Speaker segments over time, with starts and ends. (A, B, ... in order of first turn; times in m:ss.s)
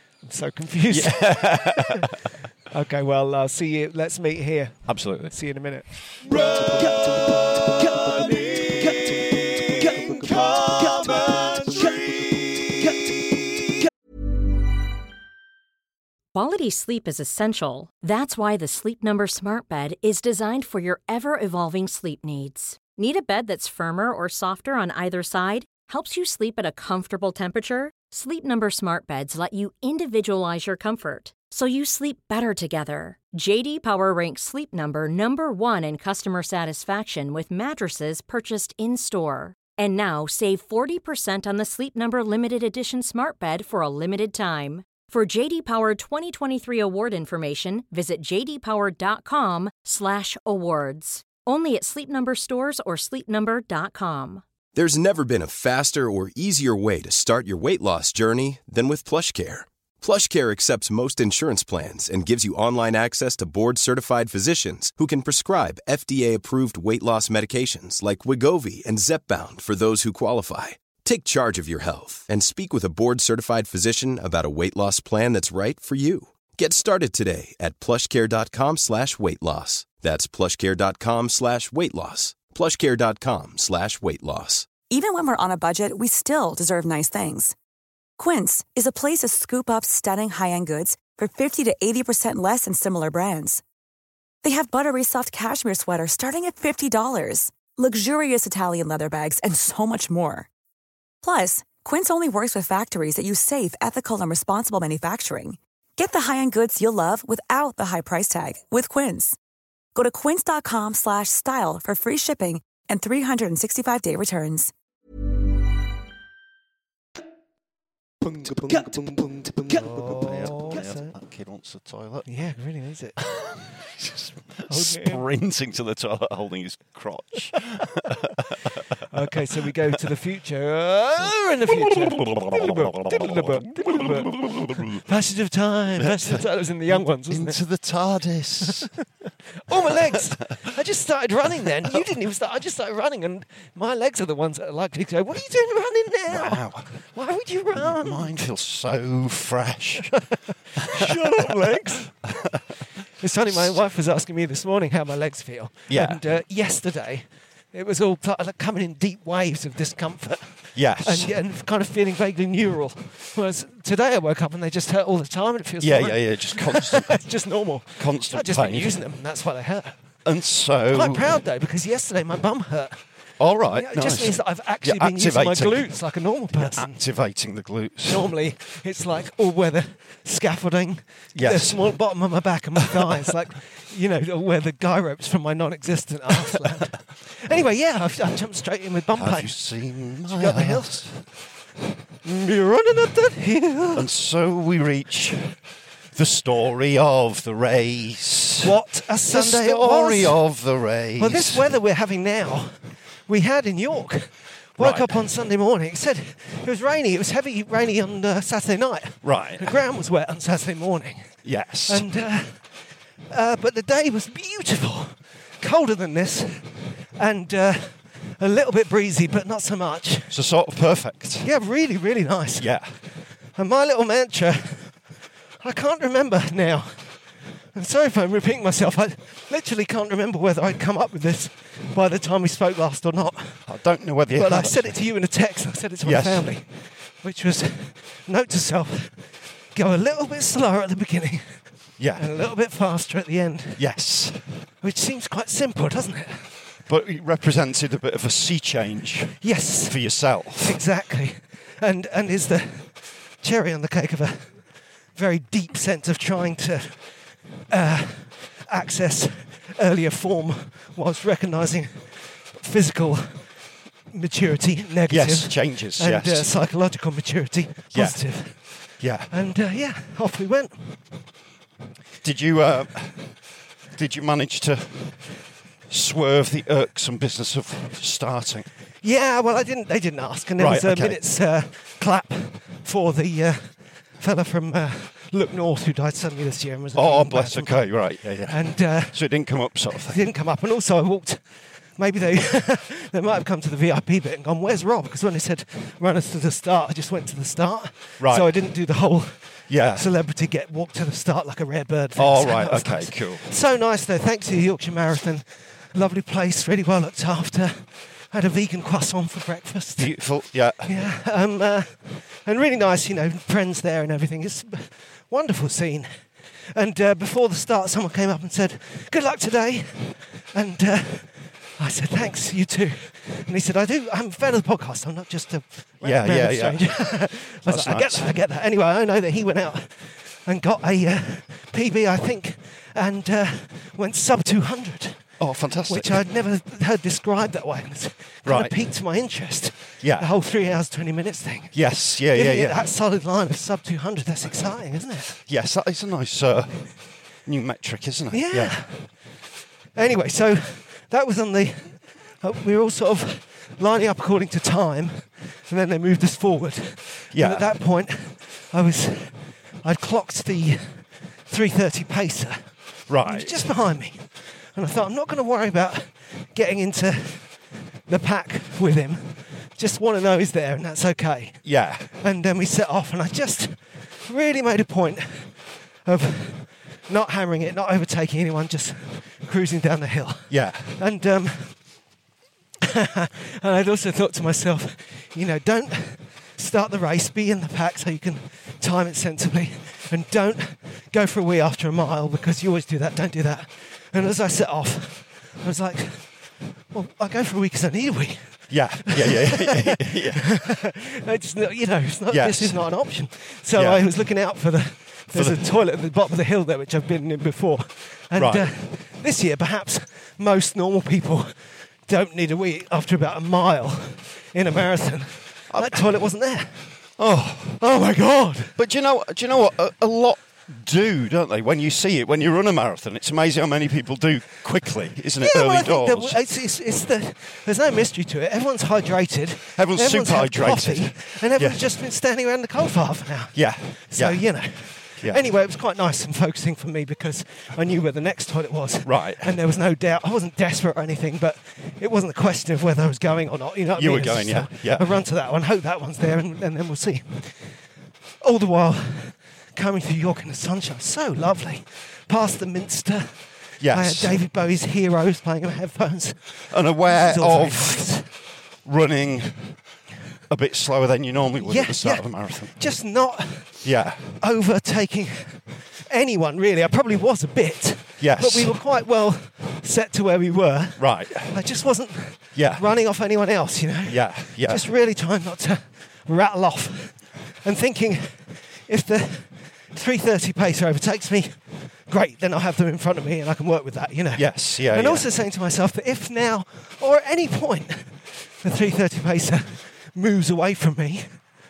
0:00.2-0:02.1 A
0:00.9-0:02.1 B
0:02.7-0:05.9 A
0:04.9-0:05.4 B
0:06.2-0:12.4 B
0:07.8-0:09.1 A
0:09.8-0:12.0 A
0:16.3-0:54.4 C
0:54.7-1:24.8 D
1:24.9-1:27.5 E
1:28.2-1:33.6 E
1:34.4-1:40.5 E
1:41.2-1:49.4 E
1:49.9-1:54.7 E
1:58.4-1:58.7 B
1:59.4-2:02.3 B
1:59.6-2:01.1 A
2:02.2-2:03.2 A
2:03.2-2:09.0 B
2:04.7-2:05.2 A
2:09.1-2:17.6 A
2:11.7-2:15.0 B
2:16.0-2:16.4 B
2:16.9-2:18.9 B
2:19.7-2:28.3 A
2:19.9-2:20.3 B
2:26.3-2:26.9 B
2:27.8-2:30.2 B
2:30.7-2:32.1 A
2:30.8-2:32.6 B
2:33.2-2:49.9 A
2:35.9-2:36.2 B
2:40.7-2:41.3 B
2:45.8-2:47.2 B
2:48.0-2:49.0 B
2:50.2-2:51.3 B
2:50.9-2:53.0 A
2:53.4-2:55.9 B
2:53.7-2:57.0 A
2:56.5-2:58.3 B
2:58.1-3:09.6 A
3:01.3-3:01.9 B
3:02.8-3:03.2 B
3:09.2-3:11.2 B
3:10.3-3:11.0 A
3:12.2-3:14.1 A
3:13.9-3:15.6 B
3:16.1-3:18.8 B
3:18.6-3:20.4 A
3:19.3-3:21.7 B
3:21.2-3:22.7 A
3:23.3-3:31.4 A
3:24.8-3:25.2 B
3:29.2-3:29.8 B
3:31.4-3:32.1 B
3:31.9-3:32.7 A
3:33.3-3:40.3 A
3:40.3-3:41.5 B
3:41.4-3:42.7 A
3:42.6-3:43.0 B
3:43.6-3:45.0 A
3:45.6-3:47.2 A
3:47.7-3:53.6 A
3:53.7-3:55.0 B
3:54.3-3:59.2 A
3:56.0-3:56.5 B
3:59.7-4:01.5 A
4:02.0-4:02.3 B
4:02.2-4:03.8 A
4:03.8-4:04.5 B
4:04.8-4:06.5 A
4:06.9-4:10.8 B
4:09.4-4:17.2 A
4:17.7-4:23.4 A
4:24.1-4:30.9 A
4:25.1-4:26.5 B
4:27.9-4:29.3 B
4:32.2-4:33.4 B
4:33.9-4:35.3 B
4:35.9-4:38.7 B
4:39.0-4:48.0 A
4:40.6-4:41.2 B
4:46.9-4:50.2 B
4:48.5-4:49.2 A
4:49.9-4:51.4 A
4:52.0-5:10.2 A
4:58.2-4:58.5 B
4:59.7-5:00.1 B
5:02.2-5:03.5 B
5:10.0-5:10.9 B
5:10.8-5:16.1 A
5:16.7-5:35.2 A
5:26.0-5:28.3 B
5:35.4-5:36.2 B
5:35.9-5:41.8 A
5:38.4-5:38.8 B
5:40.0-5:40.3 B
5:41.7-5:42.9 B
5:42.3-5:45.4 A
5:45.5-5:46.8 B
5:47.4-5:48.8 B
5:48.3-5:49.1 A
5:49.9-6:01.0 A
5:57.3-5:57.7 B
6:01.5-6:02.6 A
6:03.1-6:03.7 B
6:03.2-6:15.5 A
6:11.6-6:12.1 B
6:16.0-6:21.7 A
6:20.5-6:20.9 B
6:22.9-6:36.4 A
6:36.9-6:51.5 A
6:38.7-6:40.6 B
6:42.3-6:42.9 B
6:43.7-6:44.1 B
6:45.3-6:45.6 B
6:48.3-6:48.7 B
6:52.1-6:56.9 A
6:55.7-6:56.1 B
6:57.2-6:57.8 B
6:57.8-6:58.7 A
6:58.7-7:06.4 B
7:05.4-7:27.7 A
7:09.8-7:11.8 B
7:13.5-7:14.6 B
7:19.0-7:19.5 B
7:23.9-7:25.1 B
7:28.4-7:38.3 A
7:33.8-7:34.4 B
7:36.7-7:38.1 B
7:38.8-7:39.8 B
7:40.5-7:42.8 B
7:41.6-7:43.8 A
7:43.8-7:44.3 B
7:44.4-8:01.6 A
7:48.2-7:48.7 B
7:51.0-7:51.6 B
7:52.6-7:52.8 B
7:54.1-7:54.8 B
8:02.1-8:11.3 A
8:04.4-8:05.3 B